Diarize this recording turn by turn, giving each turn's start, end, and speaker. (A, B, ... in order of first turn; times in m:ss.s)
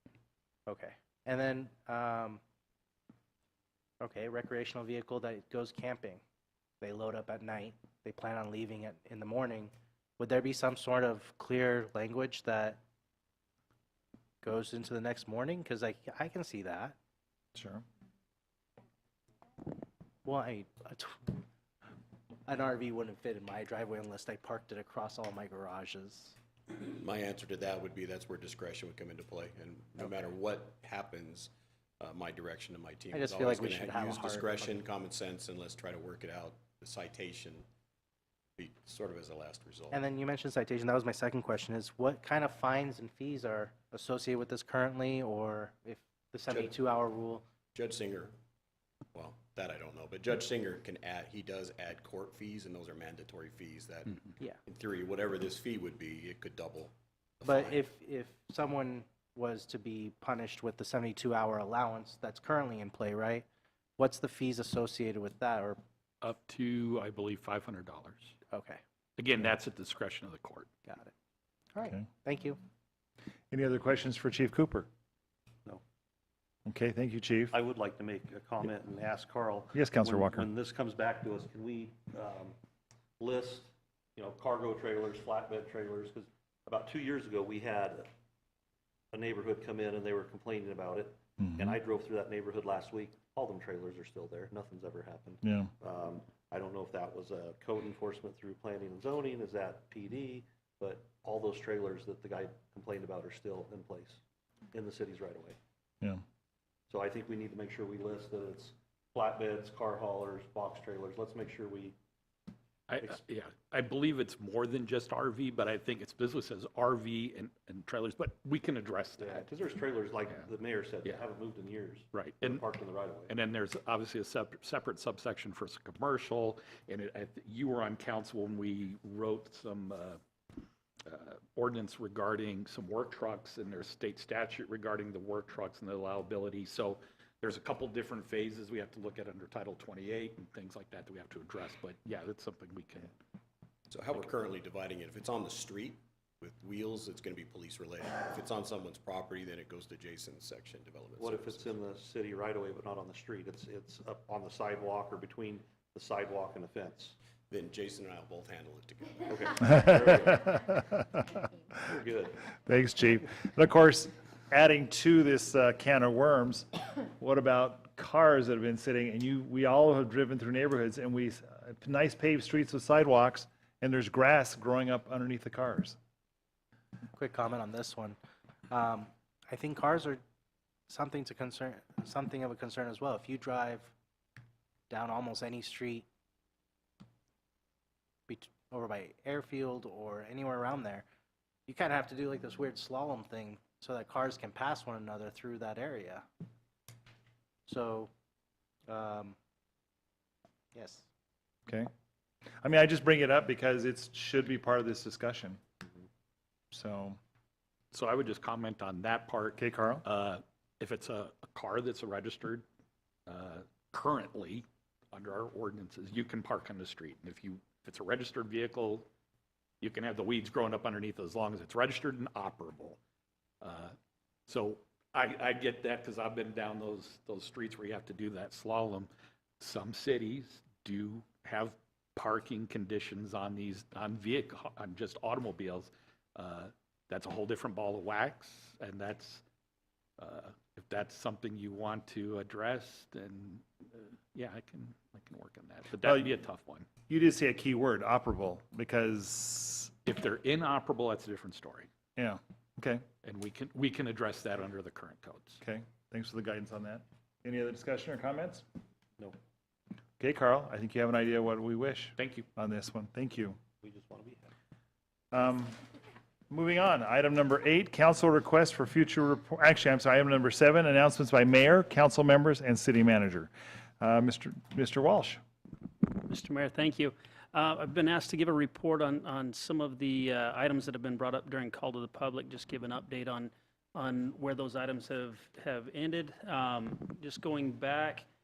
0:00.7-0:02.4 A
0:04.0-0:06.2 A
0:06.8-0:12.8 A
0:14.4-0:17.0 A
0:17.5-0:17.8 B
0:20.2-0:21.3 A
0:22.5-0:26.4 A
0:26.8-0:37.6 C
0:33.1-0:34.7 A
0:38.6-0:40.0 C
0:39.9-0:47.4 A
0:47.7-0:48.3 C
0:49.1-0:57.8 C
0:57.4-1:03.4 A
1:04.0-1:05.8 A
1:06.2-1:08.4 D
1:08.5-1:08.8 A
1:09.2-1:10.7 D
1:10.9-1:11.1 A
1:11.7-1:12.6 A
1:13.5-1:14.9 B
1:16.6-1:17.5 B
1:17.5-1:22.6 E
1:19.7-1:20.4 B
1:23.2-1:28.0 E
1:29.1-1:44.2 E
1:31.4-1:31.7 B
1:35.4-1:35.7 B
1:44.7-1:45.6 E
1:46.9-1:51.9 E
1:52.9-1:59.5 D
1:59.2-2:03.3 E
2:02.1-2:02.6 D
2:03.3-2:10.2 D
2:11.0-2:23.2 D
2:23.9-2:31.7 C
2:31.2-2:37.1 E
2:37.5-2:39.7 C
2:39.3-2:40.5 E
2:39.6-2:41.4 B
2:41.8-2:42.4 E
2:42.6-2:56.0 B
2:57.1-2:58.2 A
2:58.7-3:00.2 A
3:00.9-3:03.9 A
3:04.9-3:06.0 A
3:08.3-3:11.0 A
3:11.7-3:16.2 A
3:17.6-3:18.1 A
3:18.9-3:19.4 A
3:20.7-3:21.1 A
3:22.6-3:25.6 B
3:26.7-3:27.2 B
3:27.9-3:32.6 D
3:29.6-3:30.0 B
3:33.3-3:39.0 D
3:39.8-3:43.0 D
3:43.6-3:44.0 D
3:44.5-3:59.4 D
4:00.2-4:06.9 D
4:06.0-4:06.3 B
4:07.1-4:09.9 B
4:10.0-4:11.9 D
4:12.2-4:13.0 B
4:13.2-4:15.6 D
4:15.6-4:18.6 B
4:20.2-4:23.6 B
4:22.2-4:22.4 D
4:23.8-4:24.5 E
4:25.3-4:25.8 B
4:26.5-4:35.4 B
4:36.2-4:48.3 F